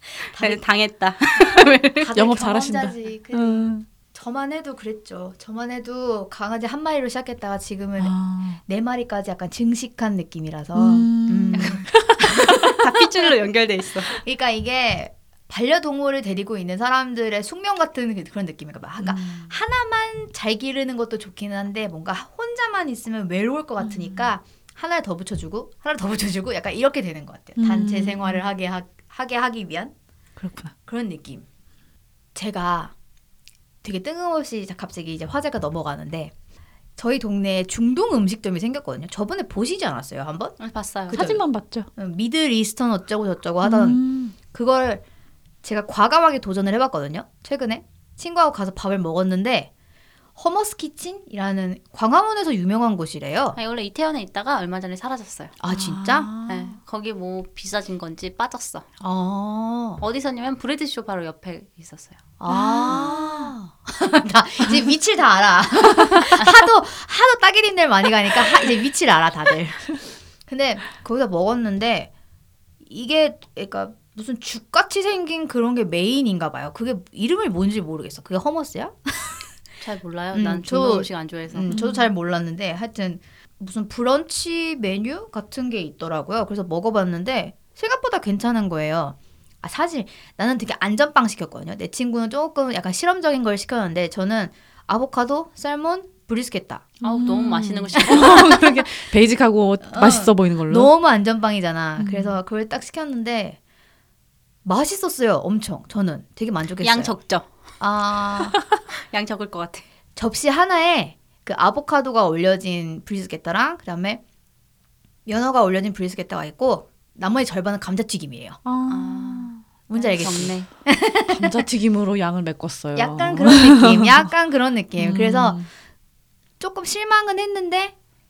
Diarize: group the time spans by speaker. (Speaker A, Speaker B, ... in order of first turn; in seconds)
Speaker A: 0.2-2.1, 11.5-14.2, 40.6-41.3, 53.5-55.6, 56.5-58.9, 60.0-62.2, 79.8-81.8, 97.0-98.8, 106.8-107.5, 109.1-109.8, 118.9-120.7
Speaker B: 0.3-0.6, 2.0-12.8, 14.2-29.9, 30.9-31.4, 32.3-32.9, 33.8-36.3, 37.0-40.6, 41.1-41.4, 42.0-45.0, 45.6-49.7, 50.4-53.6, 55.6-56.3, 59.0-60.0, 62.4-72.1, 72.8-79.5, 80.3-96.9, 98.0-98.4, 99.8-103.6, 104.6-107.2, 107.8-108.5, 110.2-114.2, 115.2-118.6, 119.9-121.6, 123.0-125.6, 126.6-127.9
Speaker C: 2.1-3.9, 8.0-8.6, 10.7-12.8, 19.0-19.5, 23.8-24.3, 27.6-28.4, 30.4-30.7, 41.1-41.9, 43.6-44.3, 55.7-56.7, 62.5-63.5, 81.7-82.1, 97.0-100.9, 102.0-102.4, 118.6-119.6, 121.3-124.3, 125.0-125.7